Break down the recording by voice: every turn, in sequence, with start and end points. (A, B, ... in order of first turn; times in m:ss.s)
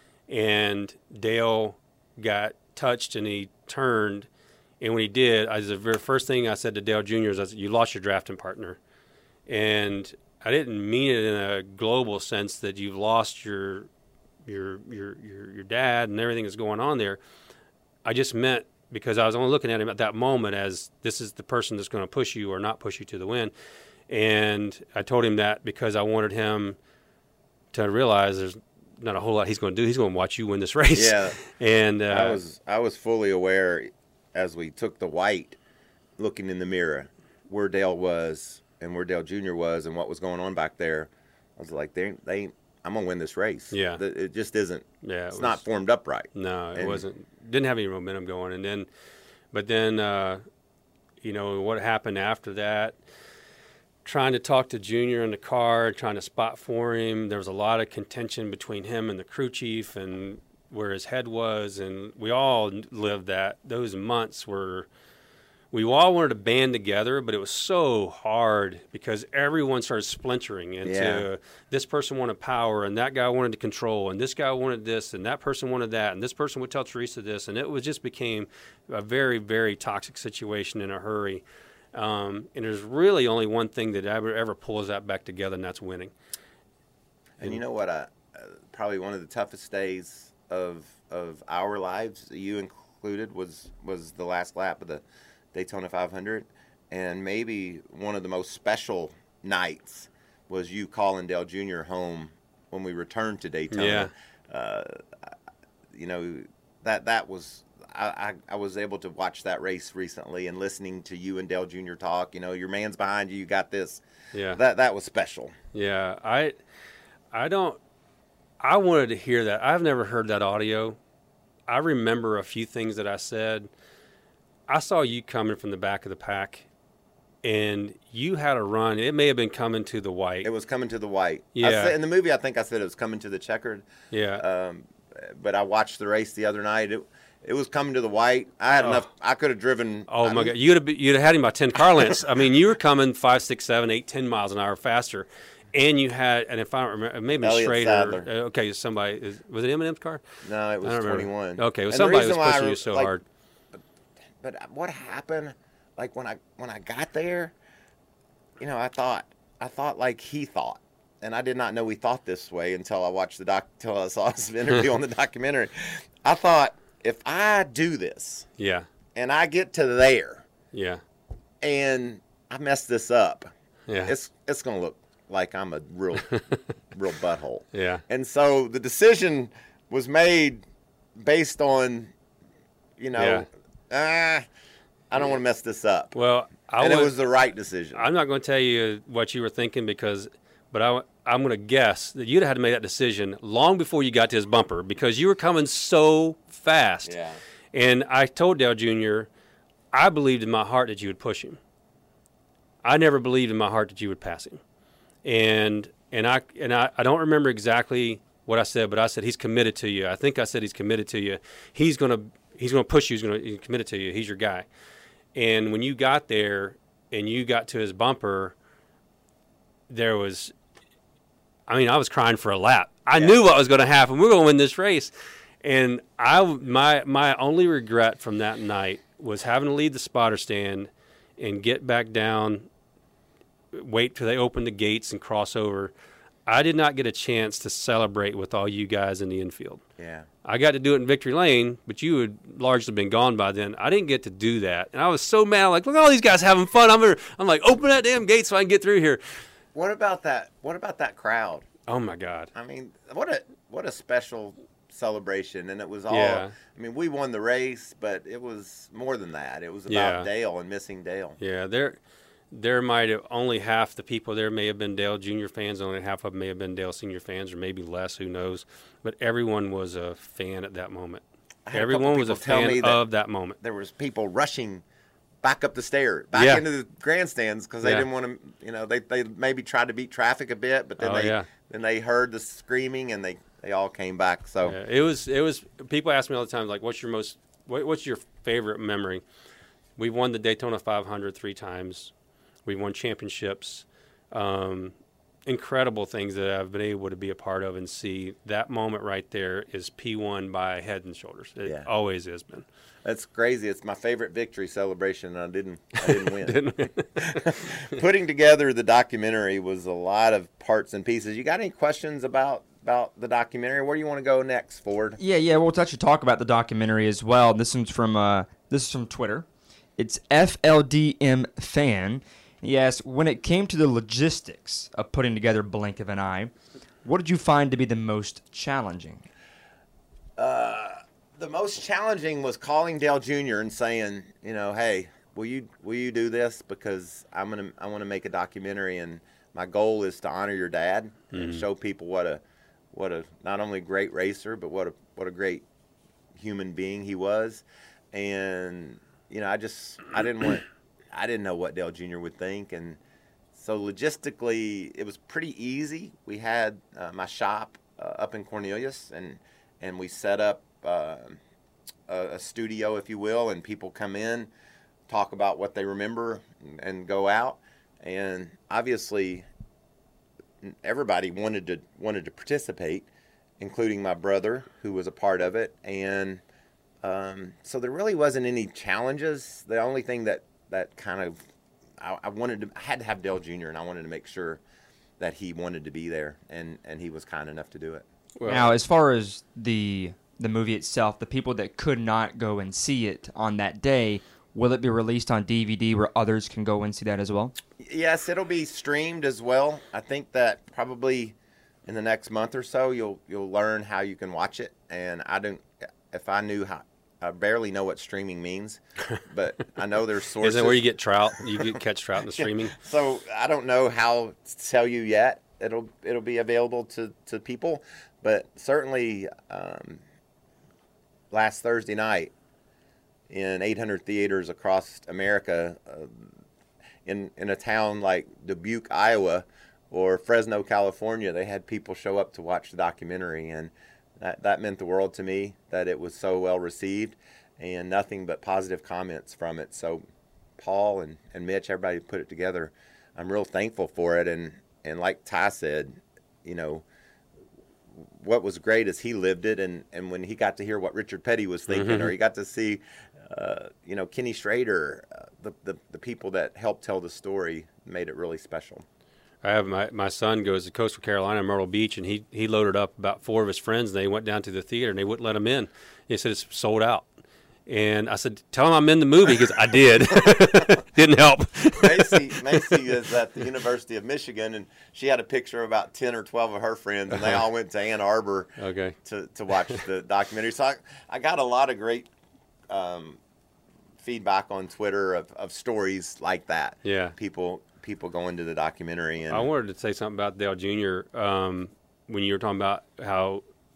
0:00.3-0:04.3 A
0:04.8-0:08.8 A
0:09.5-0:13.9 A
0:14.4-0:17.2 A
0:18.0-0:23.5 A
0:24.1-0:26.8 A
0:27.7-0:32.4 A
0:30.9-0:31.4 B
0:32.1-0:35.6 B
0:36.2-0:47.0 B
0:43.7-0:44.0 A
0:45.0-0:45.6 A
0:46.3-0:48.9 A
0:49.5-0:50.4 A
0:51.2-0:53.0 A
0:54.0-1:04.9 A
1:05.7-1:26.1 A
1:10.8-1:11.3 B
1:27.4-1:35.0 B
1:35.5-1:45.3 B
1:43.7-1:44.1 A
1:45.9-1:55.5 B
1:54.3-1:54.6 A
1:55.7-1:56.6 A
1:57.3-1:57.8 A
1:58.6-2:01.0 A
2:01.7-2:03.7 A
2:04.7-2:06.7 A
2:07.4-2:10.5 A
2:10.4-2:13.9 B
2:11.6-2:12.0 A
2:14.1-2:14.4 A
2:14.4-2:20.5 B
2:18.8-2:19.0 A
2:20.1-2:30.2 A
2:27.4-2:28.3 B
2:30.4-2:33.1 B
2:30.8-2:33.2 A
2:34.4-2:37.5 B
2:38.6-2:48.5 B
2:48.6-2:48.9 A
2:49.2-2:50.5 B
2:50.7-2:51.0 A
2:51.6-2:53.5 B
2:53.9-2:54.1 A
2:54.0-2:56.3 B
2:56.3-2:56.6 A
2:56.9-3:00.6 B
2:57.7-2:58.0 A
3:01.2-3:02.1 B
3:03.0-3:04.4 B
3:03.2-3:03.5 A
3:05.1-3:06.1 B
3:06.1-3:07.1 A
3:06.8-3:08.0 B
3:08.0-3:17.1 A
3:17.0-3:17.4 B
3:17.7-3:19.3 A
3:19.9-3:21.6 A
3:22.8-3:24.6 A
3:25.2-3:34.7 A
3:35.3-3:38.6 A
3:39.9-3:40.5 A
3:41.7-3:52.7 A
3:53.7-3:55.9 A
3:56.5-3:59.8 A
4:00.0-4:00.3 B
4:00.4-4:09.2 A
4:09.8-4:11.7 B
4:11.9-4:12.5 A
4:12.5-4:21.4 B
4:16.1-4:16.6 A
4:19.9-4:20.3 A
4:21.4-4:22.0 A
4:22.5-4:33.6 A
4:31.7-4:33.0 B
4:33.6-4:34.8 B
4:35.4-4:44.8 B
4:36.3-4:36.6 A
4:41.0-4:41.5 A
4:44.6-4:49.2 A
4:50.0-4:52.1 A
4:52.6-4:55.0 A
4:55.5-5:02.7 A
5:03.0-5:15.2 B
5:06.0-5:07.4 A
5:15.2-5:19.5 C
5:20.0-5:26.5 C
5:27.0-5:29.3 C
5:30.4-5:42.4 B
5:41.3-5:41.6 A
5:42.9-5:45.6 B
5:46.4-5:53.0 B
5:53.6-6:01.4 B
6:02.1-6:04.5 B
6:05.1-6:09.5 B
6:10.6-6:13.1 B
6:13.6-6:16.4 B
6:17.0-6:21.4 B
6:22.0-6:24.6 B
6:25.2-6:28.1 B
6:28.4-6:28.7 A
6:28.4-6:37.5 C
6:37.8-6:41.4 B
6:41.9-6:50.8 B
6:50.4-6:52.8 A
6:52.8-7:00.0 B
7:01.3-7:02.3 B
7:03.3-7:06.3 B
7:07.0-7:20.0 B
7:20.6-7:26.8 B
7:28.0-7:38.8 B
7:31.7-7:32.1 A
7:39.4-7:47.1 A
7:47.7-7:52.8 A
7:51.8-7:58.5 B
7:57.1-7:57.4 A
7:58.6-7:59.0 A
7:59.0-8:02.1 B
8:02.7-8:03.2 B
8:04.0-8:09.5 B
8:06.8-8:07.1 A
8:09.3-8:13.4 A